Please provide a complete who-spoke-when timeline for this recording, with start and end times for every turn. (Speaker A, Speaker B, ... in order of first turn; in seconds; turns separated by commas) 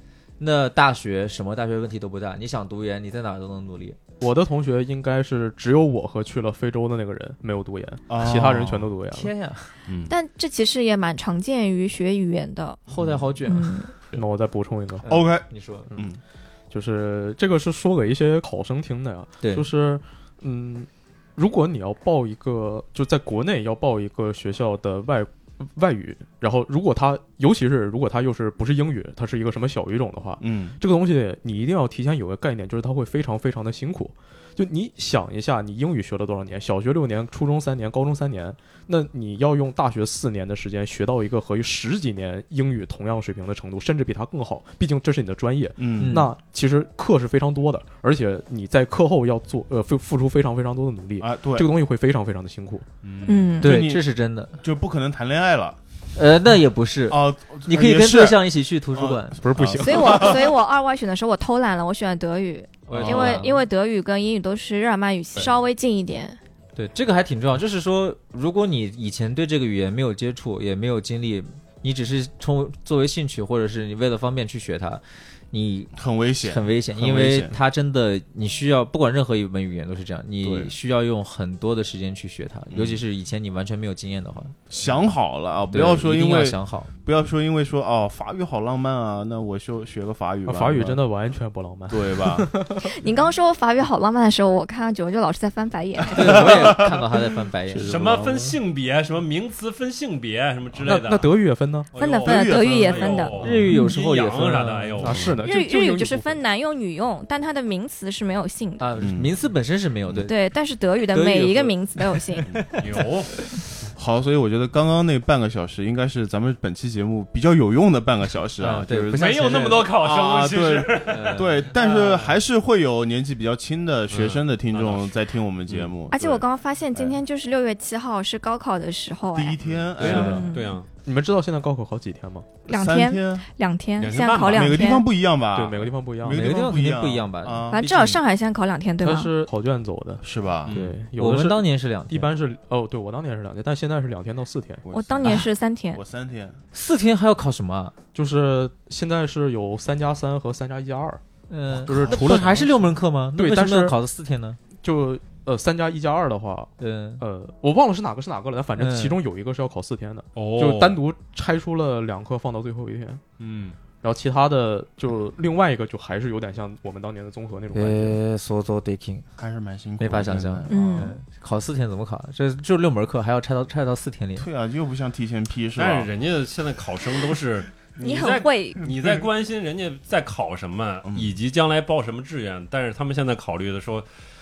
Speaker A: 0.4-4.0, Speaker B: 4.2-9.3, Speaker C: 8.1-8.9, Speaker A: 9.1-9.7, Speaker D: 9.9-10.1, Speaker E: 10.1-12.8, Speaker A: 12.9-13.8, Speaker E: 13.5-13.9, Speaker B: 14.1-15.1, Speaker A: 15.0-15.9, Speaker C: 15.1-16.2, Speaker B: 16.7-52.9, Speaker A: 19.4-19.7, Speaker C: 30.4-30.8, Speaker C: 45.8-46.2, Speaker A: 46.0-46.3, Speaker C: 51.2-51.7, Speaker D: 53.0-53.6, Speaker E: 53.3-53.8, Speaker C: 53.5-54.0, Speaker A: 53.6-54.6, Speaker C: 54.6-55.8, Speaker A: 56.2-59.4, Speaker C: 57.1-60.5, Speaker B: 59.4-60.4, Speaker E: 59.8-66.4, Speaker A: 62.9-63.6, Speaker C: 62.9-63.4, Speaker A: 66.8-84.5, Speaker C: 75.9-77.6, Speaker C: 80.4-80.7, Speaker C: 82.7-83.0, Speaker C: 84.7-91.0, Speaker A: 85.7-86.9, Speaker B: 90.5-92.9, Speaker C: 91.9-92.5, Speaker E: 92.8-96.8, Speaker A: 96.1-98.5, Speaker C: 96.2-97.0, Speaker C: 97.7-98.2, Speaker D: 97.8-101.3, Speaker B: 100.8-101.9, Speaker D: 101.9-105.4, Speaker E: 102.0-104.0, Speaker C: 102.2-103.7, Speaker A: 103.4-105.2, Speaker B: 105.0-106.4, Speaker E: 105.4-108.9, Speaker A: 108.8-110.3, Speaker C: 109.0-109.3, Speaker E: 110.3-112.5, Speaker A: 111.1-113.0, Speaker D: 112.8-113.5, Speaker C: 114.0-119.4, Speaker A: 118.6-120.0, Speaker D: 119.1-121.5, Speaker C: 120.0-127.2, Speaker A: 121.0-122.2, Speaker D: 124.1-125.9, Speaker E: 126.1-129.6, Speaker C: 129.3-130.5, Speaker D: 129.6-130.9, Speaker A: 130.0-130.4, Speaker E: 130.1-130.8, Speaker B: 131.0-132.5, Speaker E: 132.7-135.1, Speaker C: 132.7-133.5, Speaker D: 134.0-134.8, Speaker C: 134.5-137.8, Speaker B: 135.5-136.6, Speaker A: 136.3-138.2, Speaker E: 137.7-139.3, Speaker B: 139.0-144.8, Speaker C: 140.2-140.7, Speaker A: 140.8-142.3, Speaker C: 144.8-146.6, Speaker E: 144.9-146.0, Speaker A: 146.7-147.9, Speaker B: 148.1-151.2, Speaker A: 151.5-154.6, Speaker B: 151.8-152.8, Speaker C: 152.0-152.6, Speaker B: 153.3-154.0, Speaker B: 154.8-163.2, Speaker A: 156.8-157.2, Speaker A: 158.8-159.2, Speaker D: 160.4-161.0, Speaker D: 163.4-163.8, Speaker B: 164.0-168.2, Speaker A: 167.7-169.3, Speaker C: 169.4-171.1, Speaker A: 170.0-174.5, Speaker E: 170.7-171.2, Speaker C: 174.4-176.1, Speaker D: 175.8-184.1, Speaker E: 178.0-178.8, Speaker C: 178.9-179.2, Speaker C: 181.1-181.3